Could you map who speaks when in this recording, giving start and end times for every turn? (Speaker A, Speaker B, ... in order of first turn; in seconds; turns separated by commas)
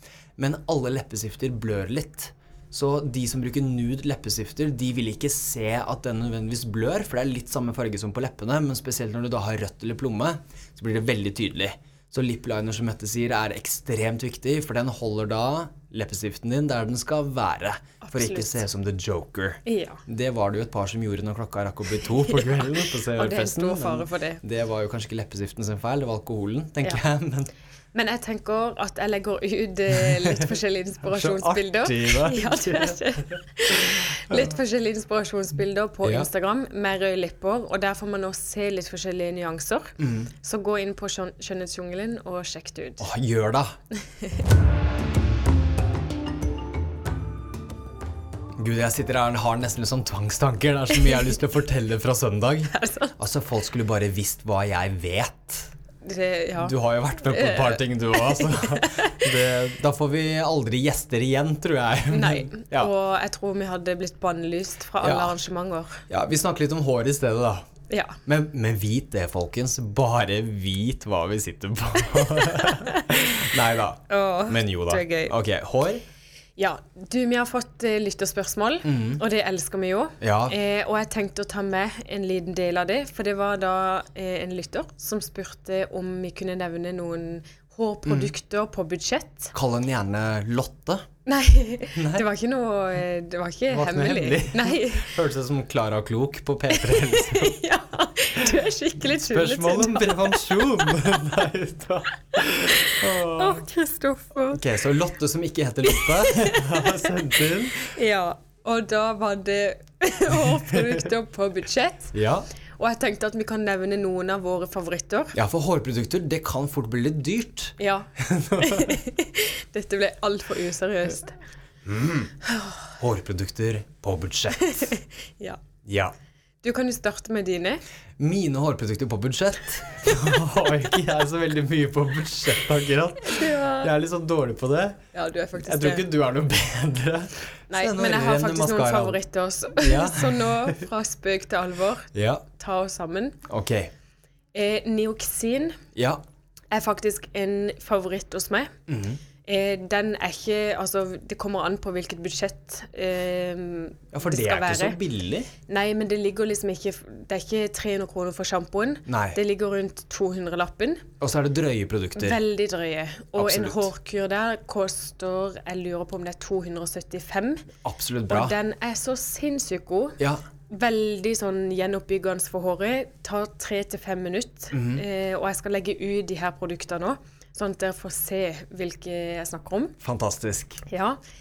Speaker A: 0.4-27.5, Speaker B: 18.0-18.6, Speaker B: 19.6-20.0, Speaker B: 22.2-24.4, Speaker B: 27.9-43.1, Speaker A: 29.9-30.5, Speaker A: 31.0-33.3, Speaker A: 40.0-40.3, Speaker A: 43.0-43.7, Speaker B: 43.9-44.4, Speaker A: 48.6-55.7, Speaker B: 51.0-51.3, Speaker B: 52.7-53.1, Speaker B: 56.0-59.3, Speaker A: 56.6-62.9, Speaker B: 62.1-66.0, Speaker A: 65.0-65.3, Speaker A: 66.1-67.7, Speaker B: 67.9-68.2, Speaker A: 68.2-76.0, Speaker B: 72.3-73.2, Speaker B: 74.1-75.3, Speaker B: 76.6-89.5, Speaker A: 78.8-79.2, Speaker A: 80.2-80.6, Speaker A: 88.0-88.3, Speaker A: 89.5-91.0, Speaker B: 91.2-95.1, Speaker A: 91.9-92.2, Speaker A: 93.7-97.6, Speaker B: 96.7-101.2, Speaker A: 99.1-103.6, Speaker B: 103.2-104.6, Speaker A: 104.5-107.9, Speaker B: 105.8-107.2, Speaker B: 107.8-112.1, Speaker A: 112.1-112.5, Speaker B: 112.8-115.3, Speaker A: 115.3-119.0, Speaker B: 117.8-121.3, Speaker A: 121.8-122.3, Speaker B: 122.4-122.9, Speaker A: 123.0-124.9, Speaker B: 124.6-125.6, Speaker A: 125.8-126.1, Speaker B: 126.6-127.8, Speaker A: 128.2-135.0, Speaker B: 130.1-130.4, Speaker B: 133.2-133.9, Speaker B: 135.1-136.1, Speaker A: 135.6-139.2, Speaker B: 137.7-143.4, Speaker A: 139.8-140.8, Speaker A: 142.1-142.4, Speaker A: 143.5-143.9, Speaker B: 144.5-145.8, Speaker A: 145.9-146.2, Speaker B: 146.7-148.7, Speaker A: 148.9-149.2, Speaker B: 149.4-155.0, Speaker A: 154.1-155.5, Speaker B: 155.7-161.1, Speaker A: 159.1-159.4, Speaker A: 161.2-162.4, Speaker B: 162.2-167.7, Speaker A: 163.3-163.9, Speaker A: 167.8-168.6, Speaker B: 168.3-170.2, Speaker B: 170.7-179.9, Speaker A: 174.7-175.0, Speaker A: 180.0-180.8, Speaker B: 180.8-181.2